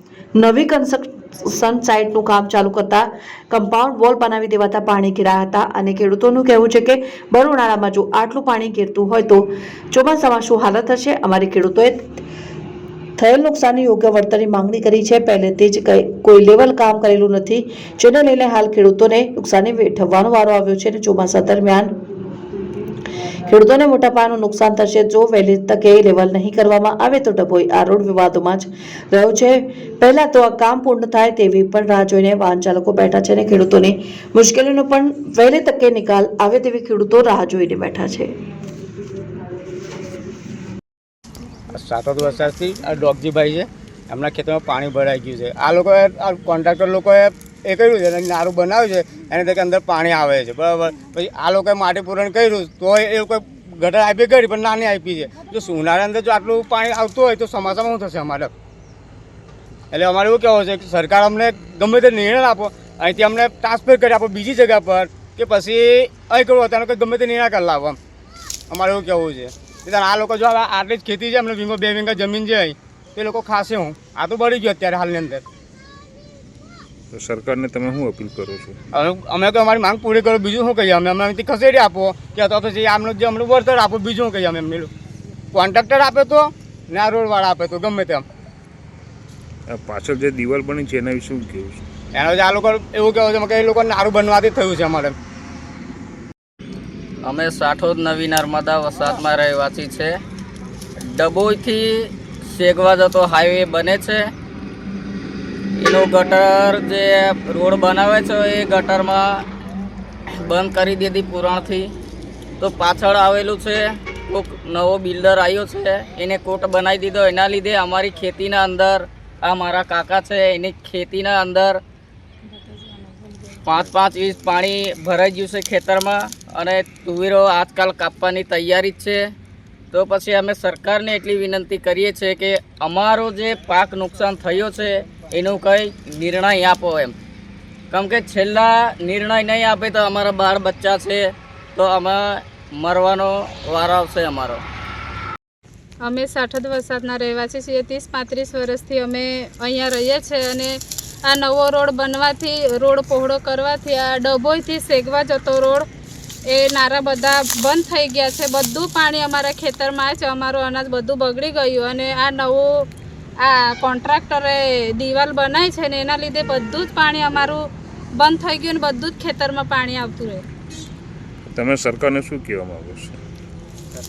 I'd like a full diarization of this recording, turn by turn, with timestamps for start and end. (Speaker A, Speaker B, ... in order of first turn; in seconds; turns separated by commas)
Speaker A: 0.3-12.2, Speaker A: 13.2-21.9, Speaker A: 23.4-38.3, Speaker B: 41.7-58.5, Speaker B: 59.9-68.0, Speaker B: 68.7-75.4, Speaker C: 77.1-78.7, Speaker B: 78.9-84.9, Speaker B: 85.5-88.2, Speaker C: 89.7-91.8, Speaker B: 92.1-95.2, Speaker D: 97.2-100.1, Speaker D: 101.0-104.3, Speaker D: 105.8-109.4, Speaker D: 110.3-111.9, Speaker D: 112.6-121.8, Speaker D: 123.6-129.2, Speaker D: 129.9-137.1, Speaker D: 137.9-141.2, Speaker D: 141.8-144.6, Speaker E: 146.0-155.9, Speaker E: 156.5-162.9, Speaker E: 163.4-167.6, Speaker E: 168.1-170.4, Speaker C: 171.5-173.2